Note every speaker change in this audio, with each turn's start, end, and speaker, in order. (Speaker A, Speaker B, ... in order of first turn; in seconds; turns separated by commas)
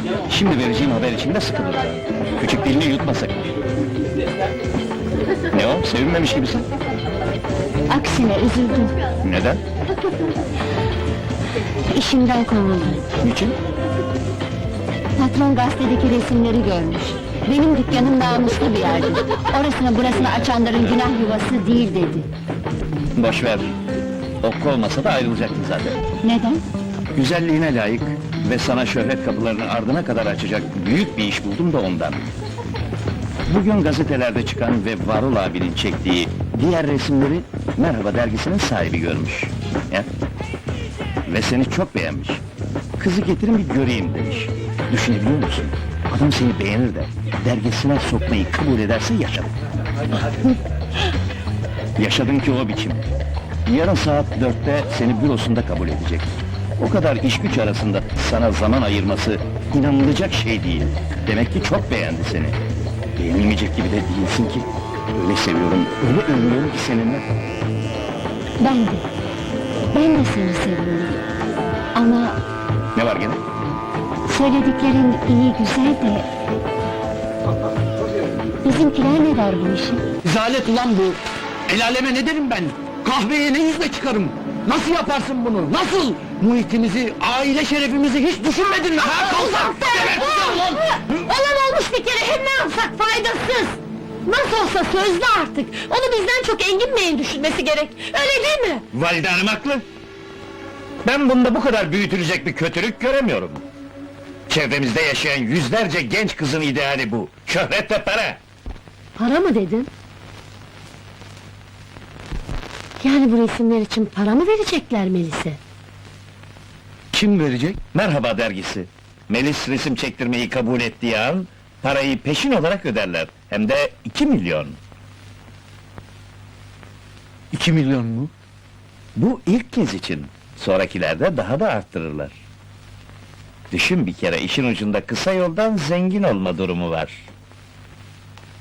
Speaker A: 0.3-3.5, Speaker A: 5.5-6.7, Speaker B: 7.9-9.0, Speaker A: 9.2-9.6, Speaker B: 11.9-13.1, Speaker A: 13.2-13.6, Speaker B: 15.2-22.3, Speaker A: 23.1-23.7, Speaker A: 24.4-26.0, Speaker B: 26.2-26.6, Speaker A: 27.1-32.3, Speaker A: 33.5-40.1, Speaker A: 41.2-42.4, Speaker A: 43.0-49.5, Speaker A: 52.0-53.0, Speaker A: 53.6-62.6, Speaker A: 63.1-67.2, Speaker B: 68.6-69.0, Speaker B: 69.9-71.2, Speaker B: 71.9-72.4, Speaker A: 72.9-73.4, Speaker B: 74.3-76.3, Speaker B: 78.6-80.0, Speaker C: 80.2-90.8, Speaker B: 89.2-98.8, Speaker A: 98.9-99.8, Speaker A: 101.0-103.6, Speaker A: 104.5-108.4, Speaker B: 109.2-109.9, Speaker B: 113.0-115.6, Speaker C: 117.1-117.8, Speaker A: 117.9-124.8, Speaker C: 127.5-128.3, Speaker A: 129.2-132.3, Speaker A: 133.7-137.2